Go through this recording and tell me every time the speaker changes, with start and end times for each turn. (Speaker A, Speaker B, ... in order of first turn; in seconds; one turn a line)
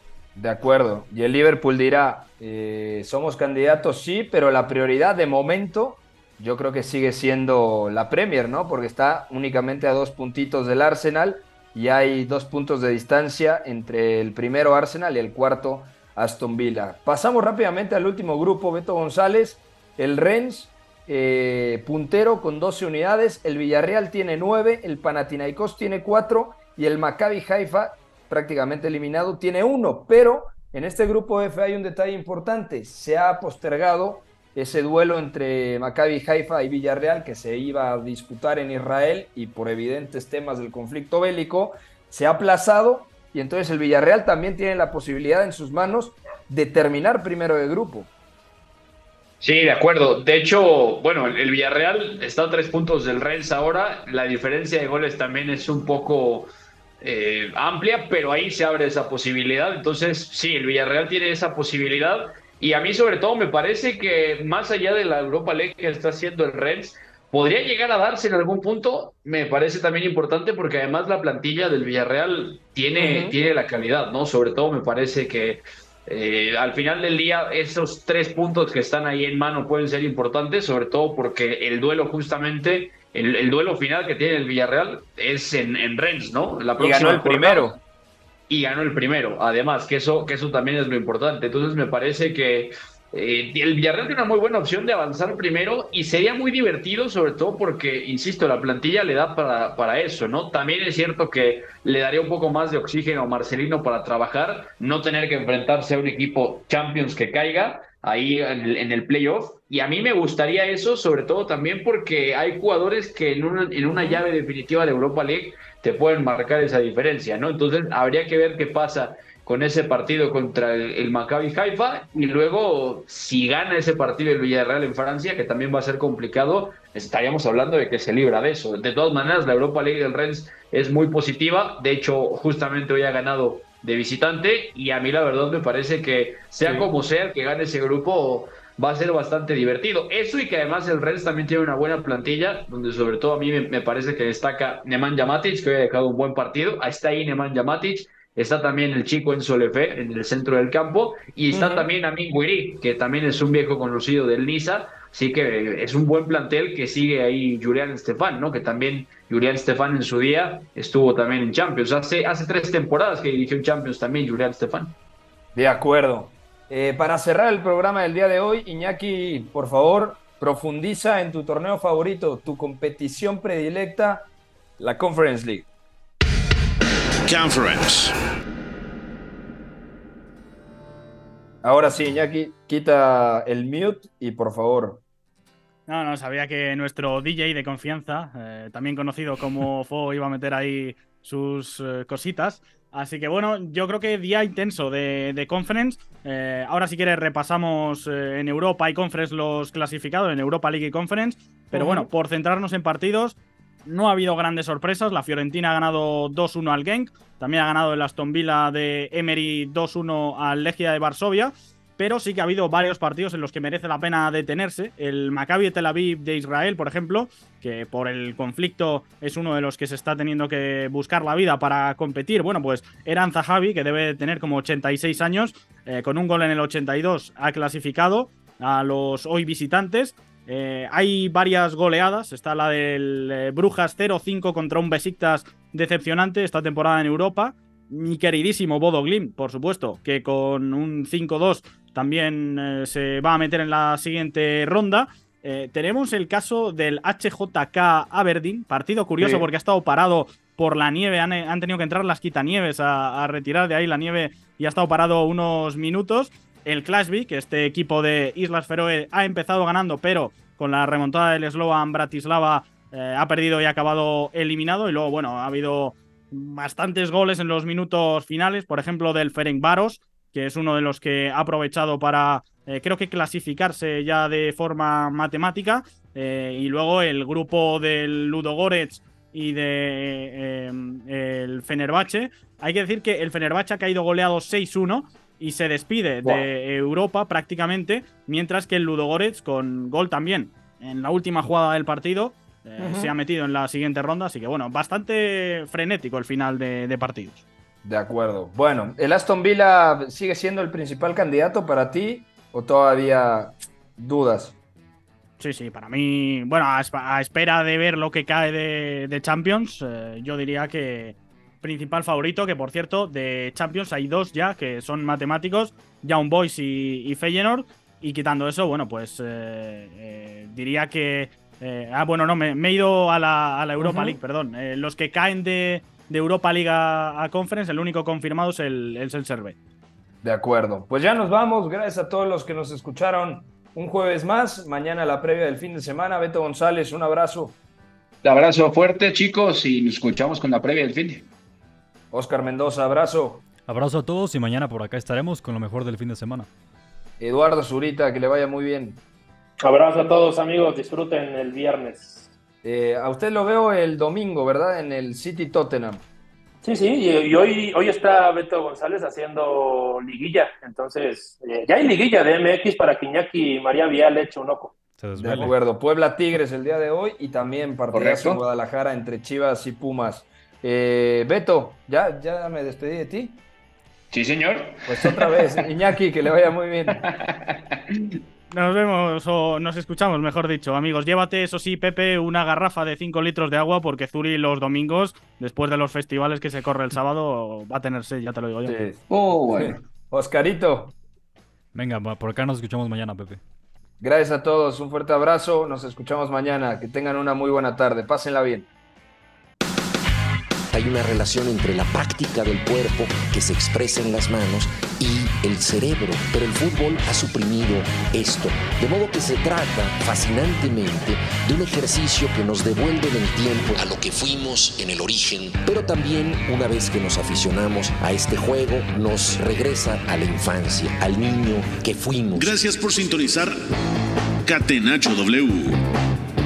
Speaker A: 0.3-48.1
Speaker B: 49.4-56.5
Speaker B: 57.0-87.7
Speaker A: 72.9-73.3
Speaker A: 86.8-87.8
Speaker B: 88.5-164.9
Speaker A: 113.9-114.2
Speaker A: 136.6-136.9
Speaker A: 151.5-151.9
Speaker A: 165.5-174.3
Speaker A: 174.8-175.7
Speaker C: 177.3-178.1
Speaker A: 181.6-185.0
Speaker D: 185.9-297.4
Speaker A: 201.7-202.1
Speaker A: 249.2-249.5
Speaker A: 292.8-293.1
Speaker A: 297.8-304.6
Speaker D: 305.4-329.6
Speaker A: 323.8-324.2
Speaker A: 330.2-337.6
Speaker B: 338.2-341.3
Speaker A: 342.1-343.5
Speaker E: 343.6-346.5
Speaker A: 347.2-349.0
Speaker F: 349.6-352.3
Speaker A: 352.6-356.0
Speaker F: 356.6-364.8
Speaker E: 365.0-365.5
Speaker A: 365.2-373.4
Speaker B: 367.9-368.4
Speaker B: 374.1-375.7
Speaker A: 374.9-377.1
Speaker B: 376.9-378.0
Speaker D: 378.5-388.8
Speaker A: 388.6-389.0
Speaker B: 389.1-389.8
Speaker A: 389.6-390.9
Speaker E: 391.8-393.4
Speaker A: 394.0-398.7
Speaker G: 400.7-422.5
Speaker C: 422.4-423.6
Speaker C: 424.4-425.8